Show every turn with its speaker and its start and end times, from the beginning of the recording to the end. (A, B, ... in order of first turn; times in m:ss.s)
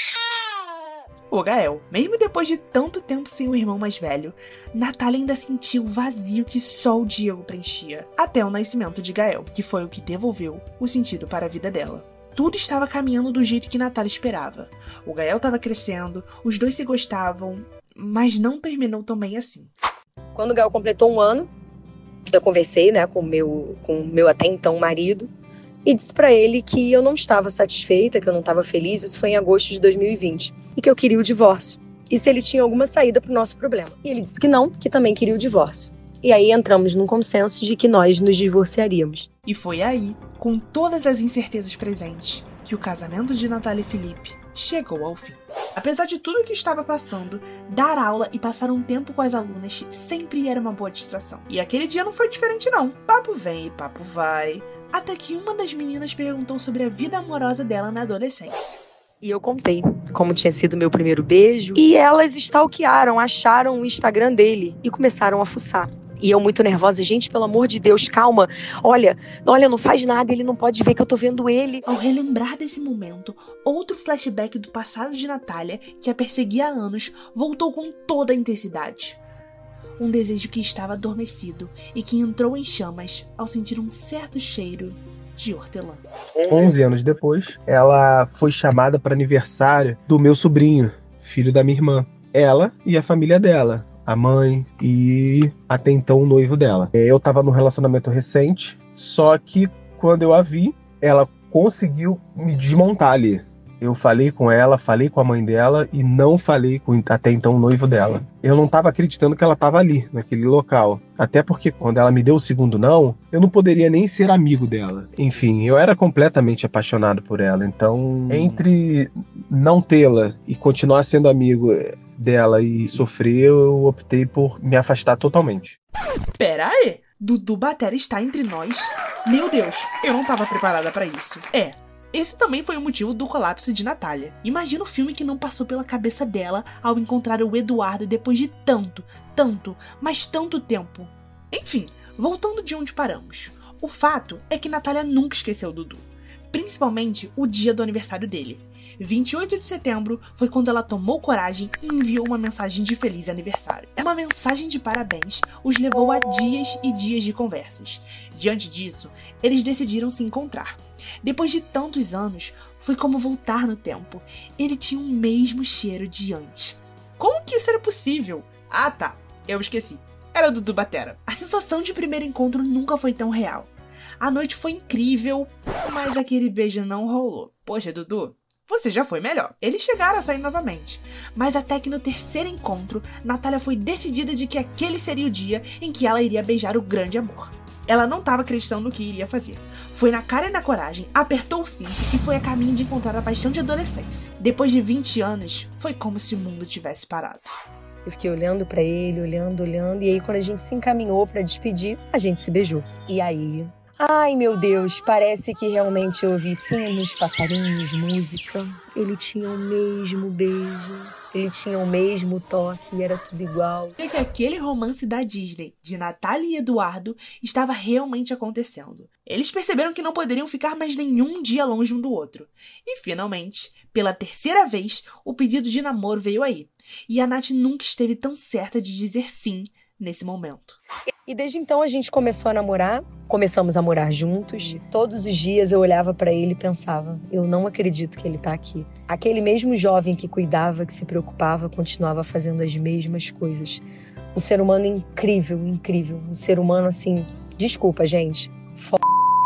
0:01.3-0:19.7 A
0:20.3-0:21.5 B
0:22.3-0:25.3 B
0:25.8-0:39.3 B
0:39.4-0:58.8 A
0:59.2-1:11.8 B
1:11.9-1:19.2 A
1:20.0-1:26.0 A
1:26.4-2:05.8 C
2:06.4-3:17.5 A
3:18.0-3:34.0 B
3:34.0-3:50.8 A
3:51.3-4:09.2 B